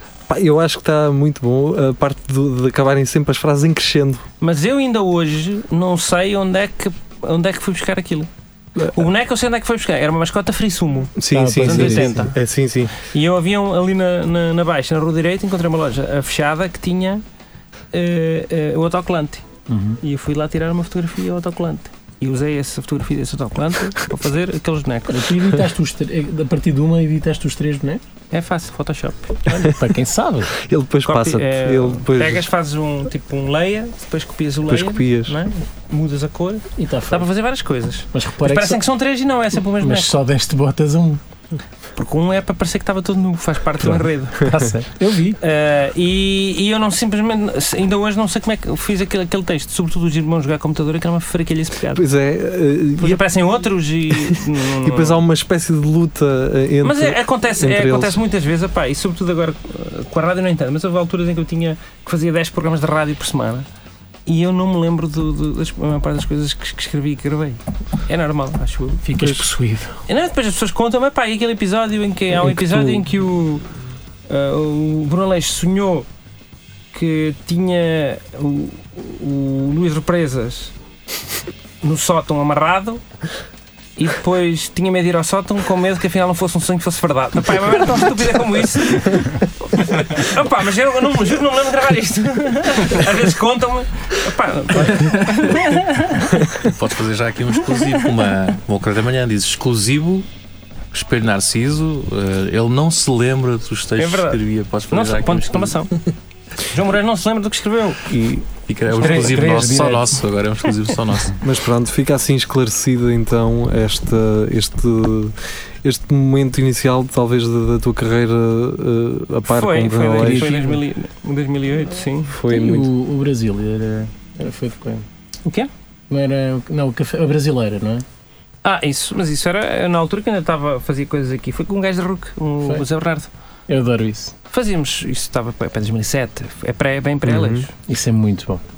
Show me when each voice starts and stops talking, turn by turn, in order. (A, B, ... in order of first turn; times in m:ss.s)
0:00.3-0:04.2 A
0:04.4-0:08.3 B
0:08.9-0:12.3 B
0:11.2-0:12.9 A
0:11.3-0:12.3 C
0:13.0-0:17.2 B
0:17.9-0:25.3 B
0:19.7-0:20.0 C
0:25.1-0:28.0 C
0:28.3-0:29.4 B
0:29.5-0:30.5 C
0:29.5-0:29.8 A
0:30.6-0:32.5 A
0:31.0-0:40.1 B
0:34.7-0:35.4 A
0:36.8-0:37.3 C
0:38.1-0:38.8 C
0:39.8-0:41.2 C
0:42.0-0:44.4 B
0:43.8-0:45.4 C
0:45.4-0:52.0 B
0:51.9-0:53.4 A
0:53.0-0:55.2 B
0:54.2-0:58.2 A
0:56.8-1:03.6 B
1:04.2-1:09.4 B
1:09.0-1:10.0 C
1:10.0-1:13.6 B
1:14.3-1:16.1 B
1:16.9-1:20.7 B
1:21.8-1:23.0 B
1:24.0-1:36.4 B
1:36.6-1:40.2 D
1:40.9-1:46.1 D
1:44.0-1:45.9 B
1:46.7-1:48.0 B
1:48.1-1:48.5 A
1:48.7-1:51.4 D
1:48.9-1:50.2 C
1:51.4-2:00.5 A
1:59.5-2:02.4 B
2:00.2-2:00.8 C
2:02.3-2:02.9 A
2:02.5-2:05.0 C
2:06.1-2:08.0 C
2:08.6-2:13.3 B
2:13.7-2:14.4 C
2:14.5-2:17.7 B
2:17.2-2:17.7 A
2:17.8-2:18.6 C